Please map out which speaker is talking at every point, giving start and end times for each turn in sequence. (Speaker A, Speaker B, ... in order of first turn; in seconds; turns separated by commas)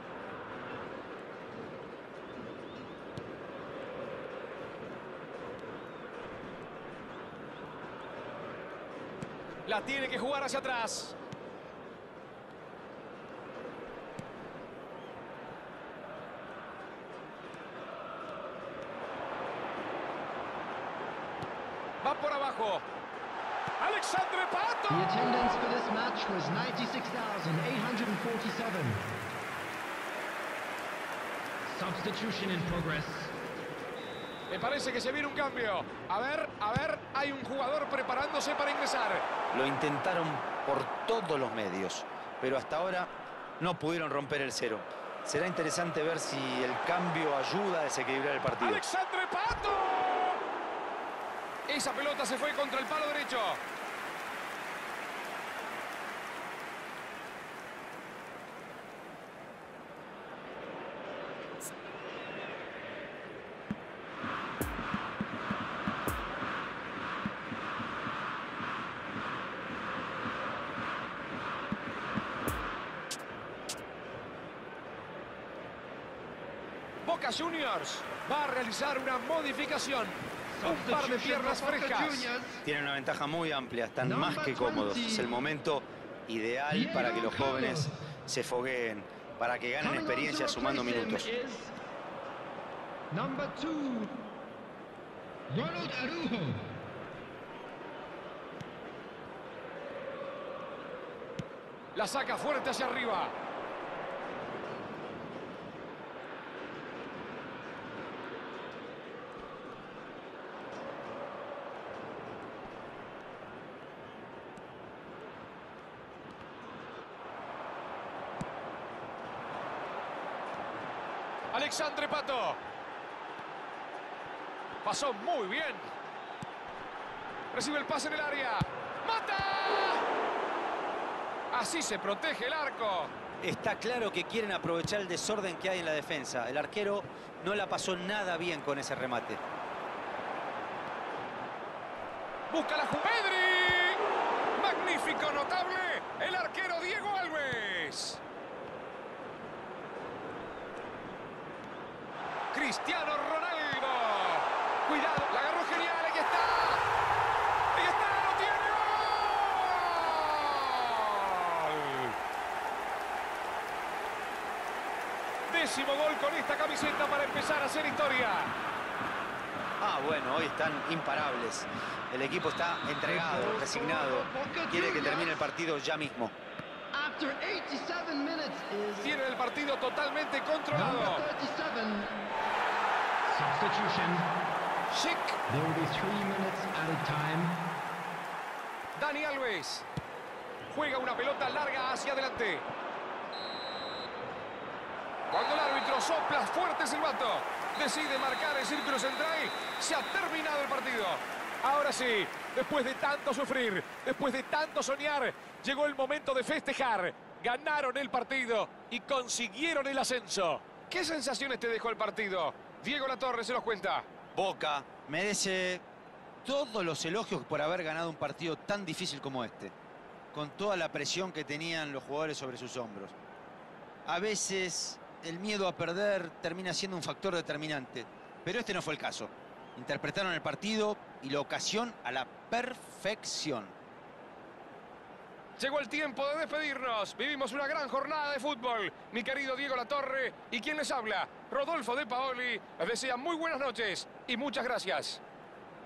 Speaker A: 9.6-11.1, Speaker A: 22.0-22.8, Speaker A: 23.8-25.2, Speaker B: 24.9-29.1, Speaker B: 31.6-33.3, Speaker A: 34.5-39.2, Speaker C: 39.5-48.8, Speaker A: 48.6-50.4, Speaker A: 51.7-53.6, Speaker A: 77.0-82.3, Speaker B: 80.5-82.6, Speaker C: 82.6-91.3, Speaker B: 84.0-85.5, Speaker B: 86.7-87.9, Speaker B: 89.8-91.7, Speaker B: 93.1-94.2, Speaker B: 95.5-96.7, Speaker A: 101.9-103.3, Speaker A: 121.5-122.6, Speaker A: 124.8-125.9, Speaker A: 127.5-130.0, Speaker A: 131.5-133.1, Speaker C: 133.4-139.4, Speaker A: 142.5-144.0, Speaker A: 144.5-148.2, Speaker A: 152.5-156.8, Speaker A: 157.7-162.1, Speaker A: 165.5-168.5, Speaker C: 169.8-176.3, Speaker B: 173.0-175.5, Speaker B: 176.9-179.2, Speaker A: 179.0-181.2, Speaker B: 180.7-182.2, Speaker B: 183.3-184.3, Speaker A: 184.9-185.4, Speaker B: 185.5-187.6, Speaker A: 188.9-189.8, Speaker A: 190.7-192.6, Speaker A: 195.3-214.1, Speaker C: 214.3-215.8, Speaker C: 216.4-219.7, Speaker C: 220.3-223.1, Speaker C: 224.1-233.7, Speaker A: 235.6-245.2